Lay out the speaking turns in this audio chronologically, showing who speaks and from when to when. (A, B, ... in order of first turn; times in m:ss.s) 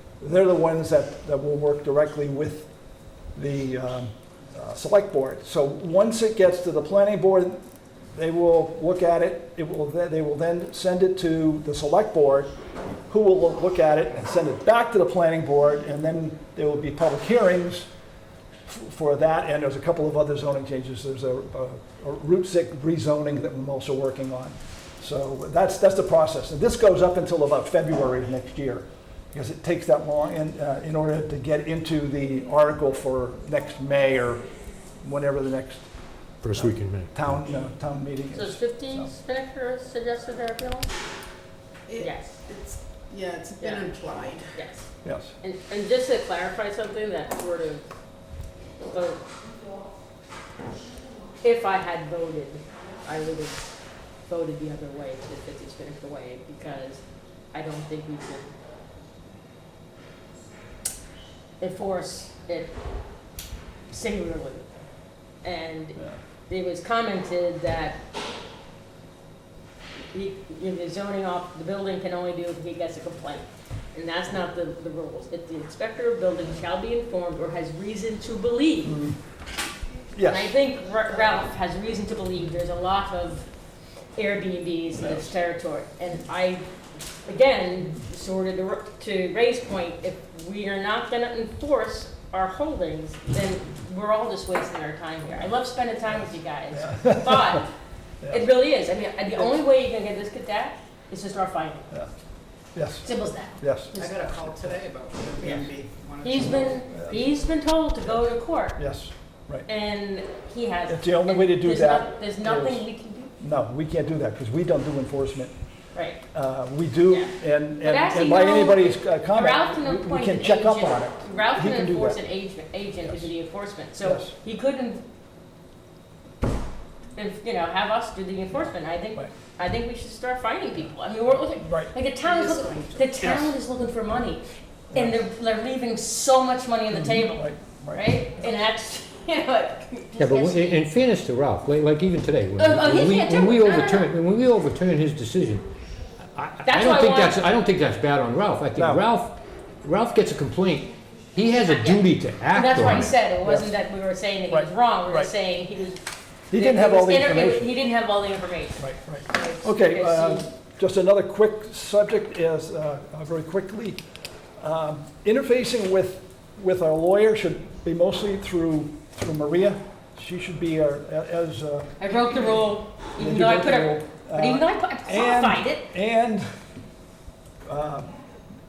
0:00.2-0:02.7 A
0:03.4-0:07.6 A
0:08.2-0:12.5 A
0:13.1-0:17.9 A
0:18.7-0:34.4 A
0:35.0-0:35.9 A
0:36.4-0:37.1 B
0:36.5-0:39.1 A
0:38.4-0:40.9 C
0:41.9-0:44.5 D
0:42.0-0:42.4 C
0:43.6-0:43.9 C
0:44.5-0:44.9 C
0:45.0-0:45.4 A
0:45.4-0:47.9 C
0:48.9-0:49.2 C
0:51.4-0:53.7 C
0:54.3-0:57.0 C
0:57.5-0:58.5 C
1:01.6-1:02.8 C
1:03.9-1:04.7 C
1:05.4-1:08.0 C
1:10.1-1:19.0 C
1:18.8-1:19.2 A
1:20.1-1:20.5 A
1:20.2-1:23.5 C
1:24.2-1:26.6 C
1:25.0-1:25.3 A
1:27.3-1:37.7 C
1:36.1-1:37.6 A
1:38.3-1:41.9 C
1:42.8-1:43.1 A
1:43.0-1:44.2 C
1:43.6-1:43.9 A
1:44.0-1:47.3 D
1:46.2-1:48.8 C
1:48.8-1:49.7 A
1:49.7-1:53.3 C
1:50.9-1:52.8 A
1:53.4-1:55.5 A
1:56.0-1:56.2 C
1:56.3-2:02.2 A
1:57.1-2:05.0 C
2:03.0-2:03.3 A
2:04.0-2:04.3 A
2:07.2-2:20.9 C
2:11.6-2:11.9 A
2:12.2-2:13.1 D
2:13.2-2:13.5 A
2:16.9-2:18.0 A
2:20.2-2:25.7 B
2:22.6-2:24.1 C
2:26.4-2:33.1 B
2:26.6-2:27.4 C
2:28.8-2:29.0 A
2:31.5-2:40.5 C
2:32.8-2:33.7 A
2:34.5-2:35.3 A
2:36.5-2:37.7 A
2:38.8-2:44.0 A
2:44.6-2:51.9 A
2:52.0-2:55.8 C
2:53.2-2:56.5 A
2:57.7-2:58.1 A